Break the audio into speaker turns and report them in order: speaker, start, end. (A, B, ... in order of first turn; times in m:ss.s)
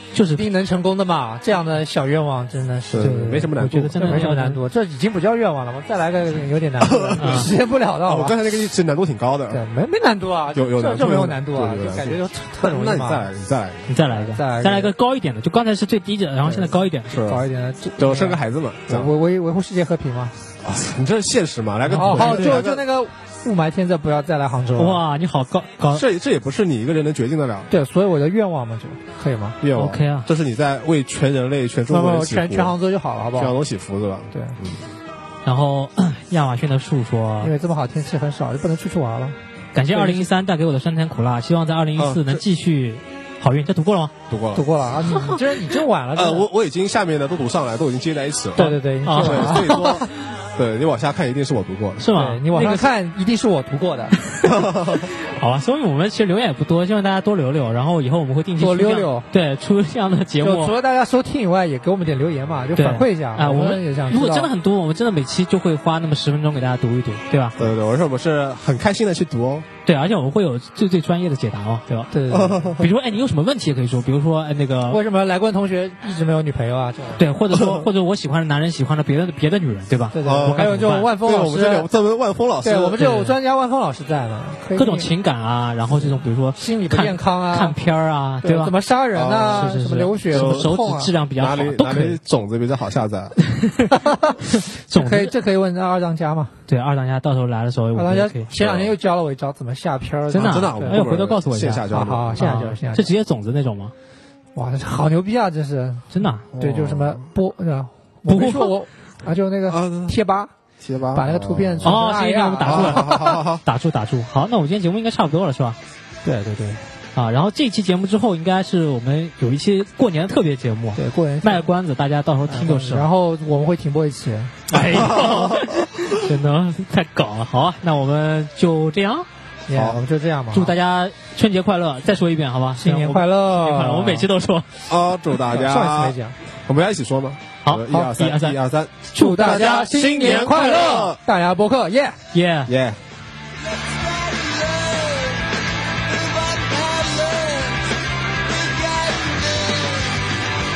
0:00.1-0:00.4 A
0:00.3-0:08.4 B
0:02.9-0:04.3 C
0:03.0-0:04.6 A
0:06.8-0:07.5 C
0:07.2-0:07.5 A
0:08.0-0:09.6 C
0:09.5-0:13.3 B
0:10.5-0:13.9 C
0:13.9-0:17.1 A
0:14.1-0:14.9 B
0:16.4-0:17.4 C
0:17.2-0:20.4 B
0:18.0-0:19.1 C
0:20.6-0:22.8 C
0:21.8-0:22.6 A
0:22.0-0:25.0 B
0:24.8-0:26.0 A
0:25.9-0:27.7 C
0:27.7-0:29.6 B
0:29.6-0:32.7 C
0:29.7-0:30.3 A
0:31.9-0:33.5 B
0:33.4-0:35.0 C
0:34.3-0:34.6 B
0:35.4-0:37.5 A
0:37.4-0:40.3 B
0:39.7-0:44.1 A
0:42.0-0:42.4 C
0:44.3-0:44.7 C
0:44.5-0:46.5 B
0:46.1-0:52.0 C
0:48.6-0:49.9 A
0:48.6-0:50.1 B
0:52.0-0:52.9 A
0:52.1-0:54.2 B
0:54.4-0:55.1 C
0:55.0-1:00.7 A
0:58.6-0:59.3 B
1:00.4-1:04.5 B
1:02.8-1:07.6 A
1:07.6-1:09.7 C
1:09.8-1:12.1 A
1:12.1-1:12.8 B
1:12.3-1:12.8 C
1:12.8-1:15.0 A
1:14.9-1:17.2 B
1:17.2-1:21.1 A
1:17.6-1:17.9 C
1:20.1-1:21.9 B
1:20.2-1:23.2 C
1:22.6-1:25.1 B
1:24.8-1:28.7 A
1:25.9-1:27.8 B
1:28.4-1:31.1 B
1:29.1-1:29.7 C
1:29.5-1:32.2 A
1:30.3-1:33.4 C
1:33.5-1:35.3 A
1:34.0-1:34.4 B
1:34.9-1:36.6 B
1:36.7-1:38.5 A
1:37.9-1:41.0 B
1:38.5-1:38.9 C
1:40.3-1:41.8 A
1:40.3-1:42.4 C
1:41.9-1:43.1 B
1:42.4-1:43.9 A
1:44.5-1:50.5 B
1:46.1-1:46.5 A
1:46.5-1:47.2 C
1:48.3-1:48.7 A
1:49.7-1:50.2 C
1:50.8-1:52.0 C
1:51.1-1:53.4 B
1:51.8-1:55.8 A
1:52.6-1:53.6 C
1:56.2-1:56.9 B
1:57.1-2:03.0 A
2:01.0-2:01.7 B
2:02.5-2:04.7 B
2:04.7-2:09.3 A
2:04.9-2:05.8 C
2:09.6-2:10.7 B
2:09.7-2:10.0 C
2:10.5-2:14.8 A
2:12.8-2:14.3 B
2:14.9-2:21.2 C
2:15.5-2:16.4 B
2:17.6-2:18.6 A
2:19.1-2:20.6 A
2:19.2-2:22.2 B
2:22.3-2:22.7 A
2:22.7-2:23.0 C
2:26.8-2:27.6 C
2:29.0-2:29.4 C